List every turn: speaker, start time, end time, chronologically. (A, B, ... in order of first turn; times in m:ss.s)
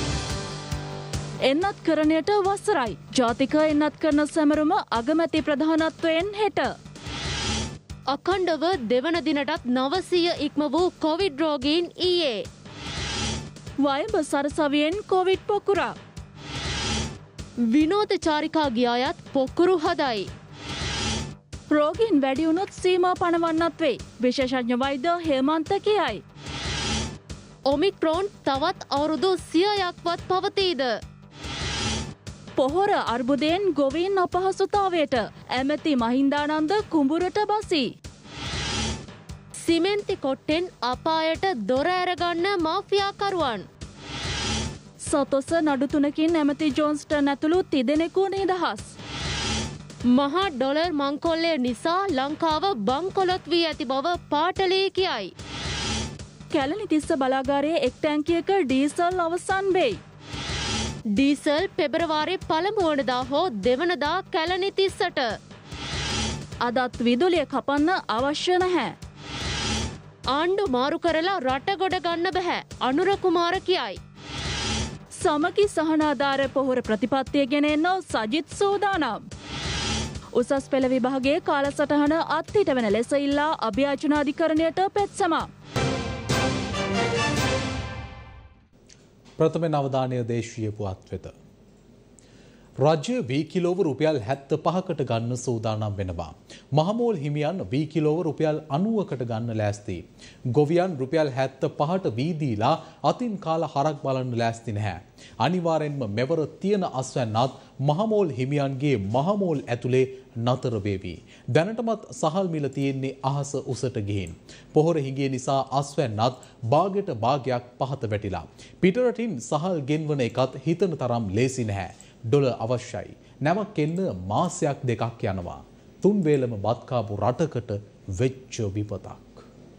0:01.5-0:06.7 A
0:08.1-0:12.4 B
0:13.8-0:15.9 A
0:17.7-0:20.3 B
0:21.7-0:26.2 A
0:27.7-0:30.9 B
0:32.6-0:37.9 A
0:39.6-0:43.6 B
0:45.0-0:48.9 A
0:50.1-0:55.3 B
0:56.5-1:00.0 A
1:01.2-1:05.3 B
1:06.6-1:08.9 A
1:10.3-1:14.0 B
1:15.2-1:19.2 A
1:20.4-1:25.5 A
1:29.4-1:31.3 C
1:32.8-2:09.4 C